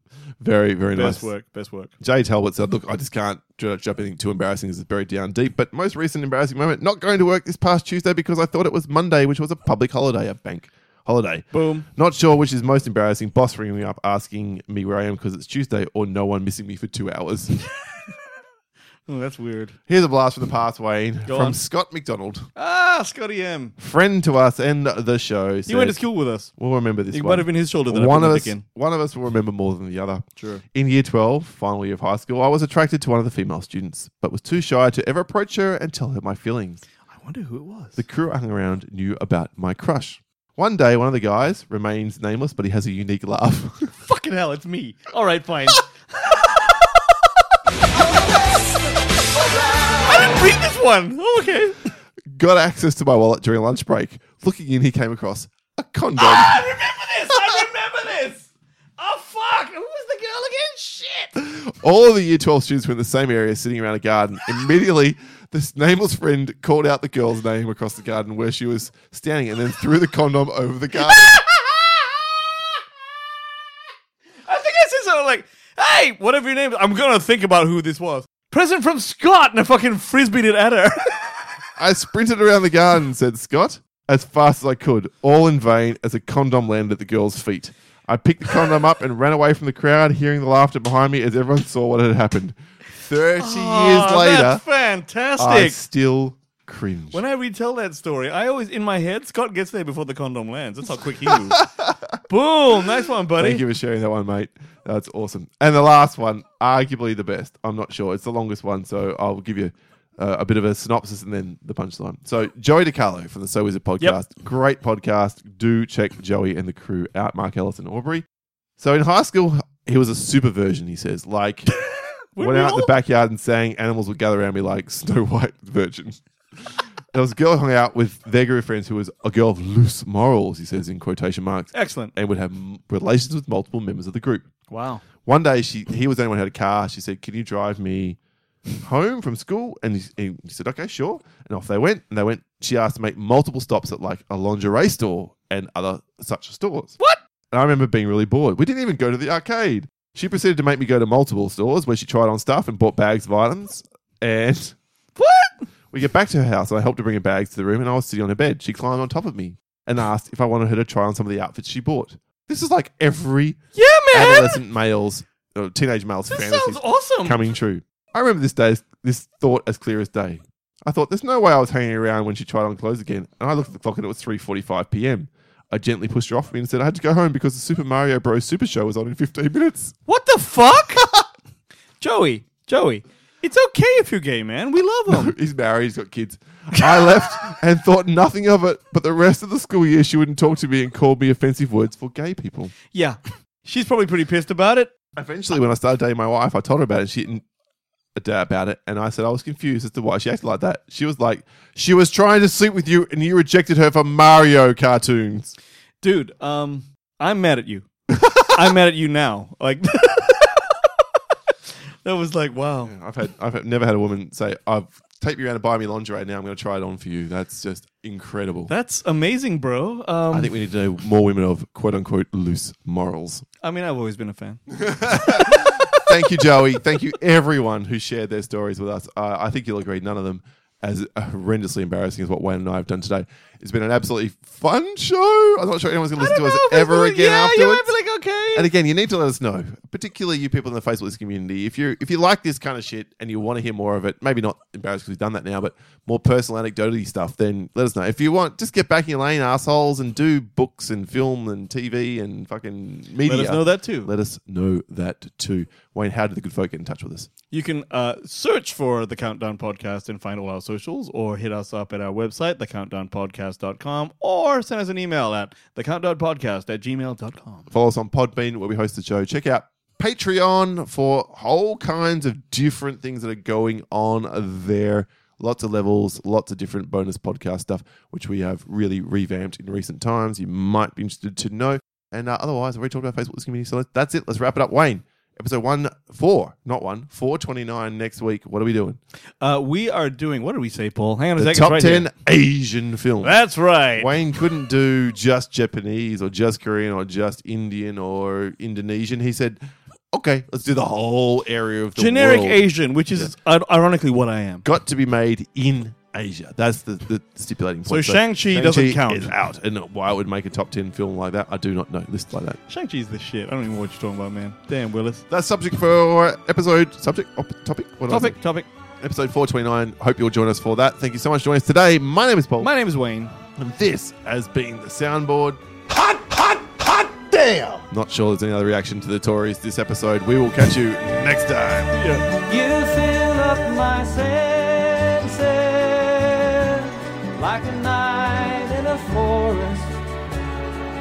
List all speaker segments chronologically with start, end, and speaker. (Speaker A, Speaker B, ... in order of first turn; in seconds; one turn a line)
Speaker A: 0.4-1.3
Speaker B: 0.9-1.9
Speaker A: 2.0-17.6
Speaker B: 11.5-11.9
Speaker B: 19.1-19.7
Speaker A: 19.9-22.5
Speaker B: 21.3-21.6
Speaker B: 22.6-23.8
Speaker A: 23.8-26.0
Speaker B: 25.7-26.5
Speaker A: 26.5-36.8
Speaker B: 27.1-28.6
Speaker B: 30.4-30.6
Speaker B: 37.1-38.0
Speaker A: 38.0-43.9
Speaker B: 44.0-46.9
Speaker C: 49.4-50.2
Speaker B: 50.0-51.8
Speaker A: 52.3-56.6
Speaker B: 56.2-58.5
Speaker B: 59.0-61.4
Speaker A: 61.4-71.4
Speaker B: 71.1-71.8
Speaker B: 74.5-81.3
Speaker A: 81.8-94.6
Speaker B: 93.4-95.8
Speaker A: 95.4-97.2
Speaker B: 97.1-101.7
Speaker A: 101.3-102.0
Speaker B: 102.3-103.6
Speaker A: 103.4-118.2
Speaker A: 118.8-121.7
Speaker B: 122.4-122.9
Speaker A: 122.4-134.5
Speaker B: 131.7-132.1
Speaker B: 134.7-135.1
Speaker A: 135.2-138.2
Speaker A: 138.8-147.0
Speaker A: 147.5-154.8
Speaker B: 155.2-155.7
Speaker A: 155.9-163.6
Speaker B: 163.8-164.6
Speaker A: 164.1-179.9
Speaker B: 166.3-167.4
Speaker B: 180.1-181.1
Speaker A: 181.0-181.3
Speaker B: 182.0-185.3
Speaker A: 185.1-192.7
Speaker B: 192.9-194.9
Speaker A: 195.1-197.4
Speaker A: 198.2-205.6
Speaker B: 206.0-207.9
Speaker B: 208.4-210.9
Speaker B: 212.0-212.9
Speaker A: 212.8-218.7
Speaker B: 218.7-220.5
Speaker A: 220.3-223.4
Speaker B: 223.6-226.2
Speaker A: 224.7-237.9
Speaker B: 236.2-238.7
Speaker A: 238.6-257.3
Speaker B: 253.2-254.1
Speaker B: 257.5-267.7
Speaker A: 267.7-289.0
Speaker B: 289.4-292.1
Speaker A: 291.4-293.4
Speaker B: 293.2-294.1
Speaker A: 293.9-299.6
Speaker A: 300.1-303.3
Speaker B: 302.0-304.6
Speaker A: 304.6-312.6
Speaker B: 307.9-309.3
Speaker B: 312.7-315.2
Speaker A: 315.3-318.4
Speaker B: 318.1-318.7
Speaker A: 319.0-322.7
Speaker B: 322.6-323.3
Speaker A: 323.6-325.6
Speaker B: 326.4-327.8
Speaker A: 327.9-331.9
Speaker B: 331.9-332.2
Speaker C: 332.3-340.0